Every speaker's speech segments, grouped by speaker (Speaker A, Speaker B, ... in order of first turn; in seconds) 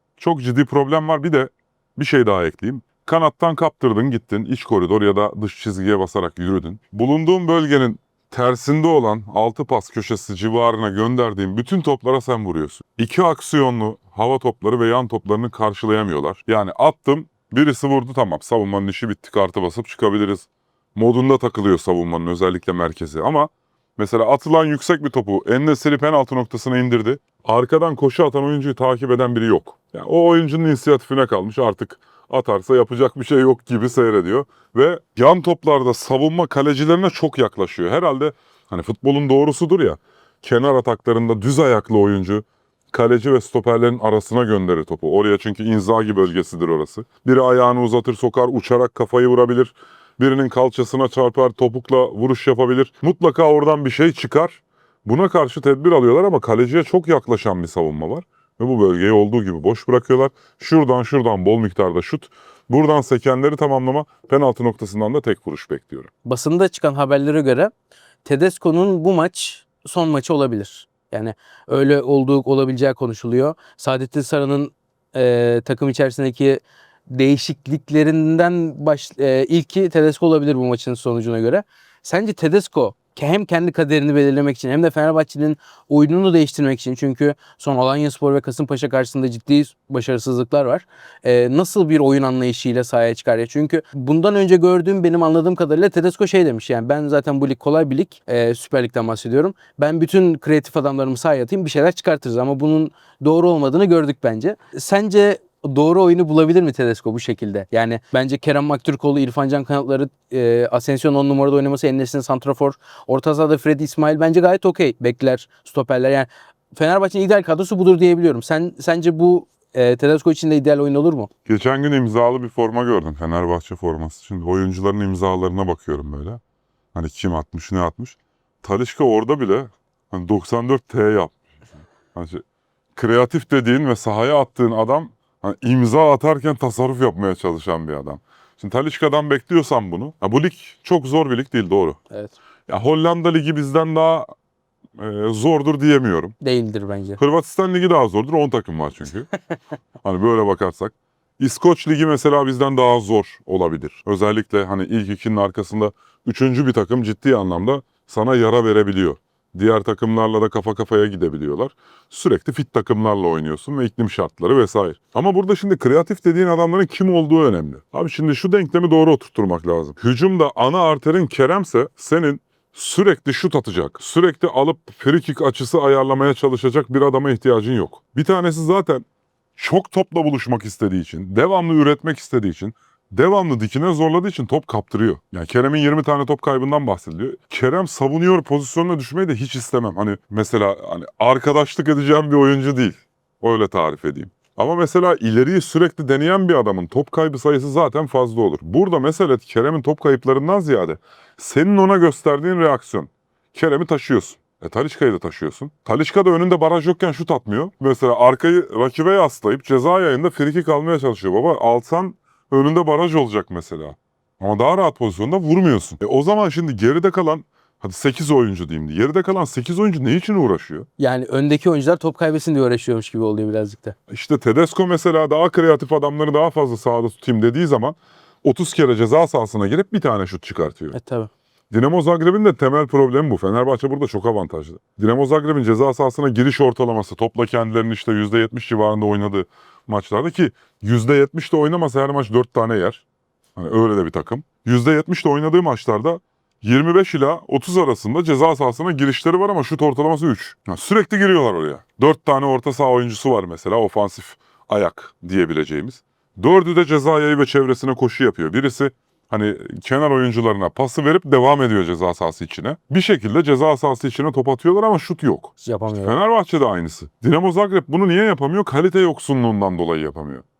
Speaker A: 0.2-66.1, 121.5-126.4, 126.9-131.3, 132.1-132.4, 132.9-142.0, 142.7-144.3, 145.0-146.3, 147.2-149.3, 150.0-179.0, 179.6-220.9, 224.1-230.9, 231.7-243.0, 243.6-270.4
Speaker B: 66.2-67.7, 68.2-121.3, 142.1-142.4, 146.4-147.2, 221.0-223.9, 230.9-231.3, 265.6-266.1